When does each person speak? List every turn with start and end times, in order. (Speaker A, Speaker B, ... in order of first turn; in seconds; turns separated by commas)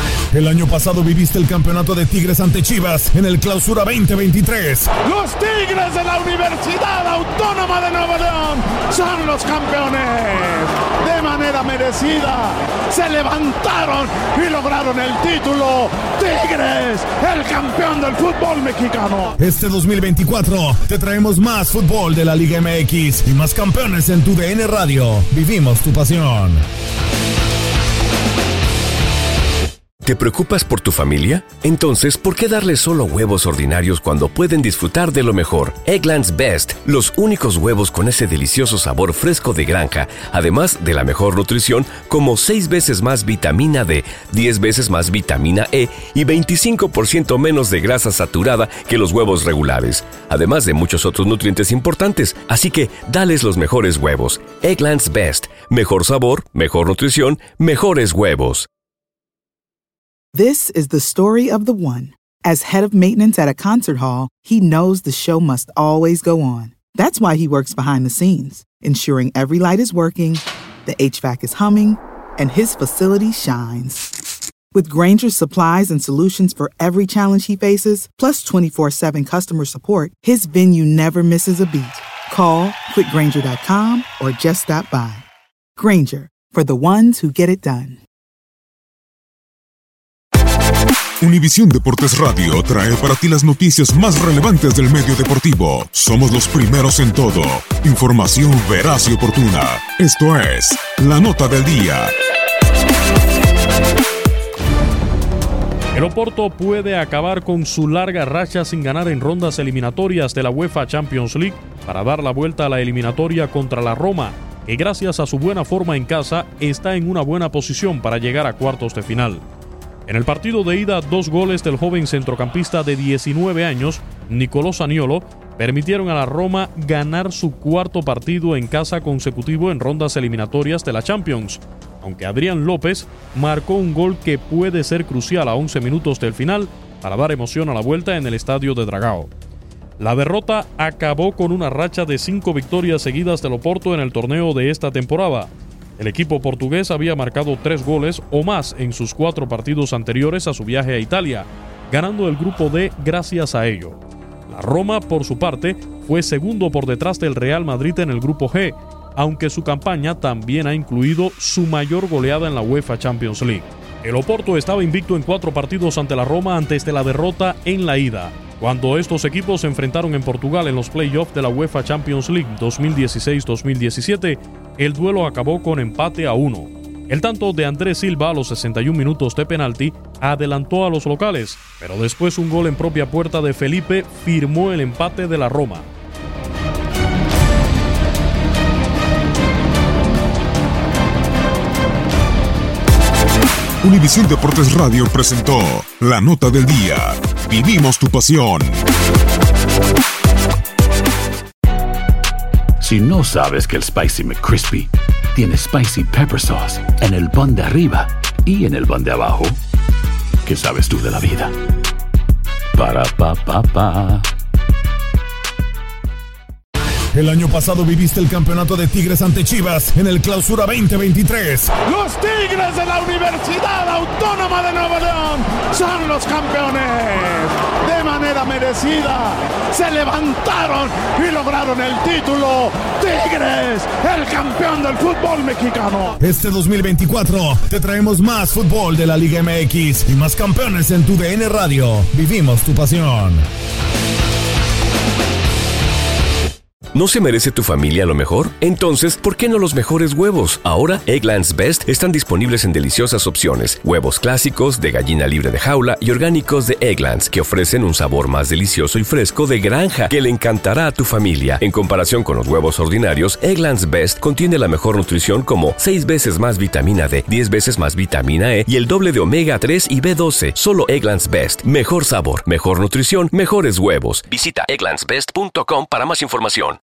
Speaker A: 0.3-4.9, Speaker B: 5.0-19.4, Speaker A: 19.4-26.6, Speaker C: 30.0-58.7, Speaker D: 60.3-74.1, Speaker D: 74.7-85.3, Speaker D: 85.8-88.0, Speaker E: 91.2-102.1, Speaker F: 106.0-119.4, Speaker F: 120.1-139.3, Speaker F: 140.0-185.9, Speaker E: 193.8-198.8, Speaker G: 202.8-209.6, Speaker G: 210.4-211.5, Speaker G: 212.7-214.3, Speaker A: 217.1-221.7, Speaker B: 221.8-236.2, Speaker A: 236.2-243.4, Speaker C: 246.9-276.8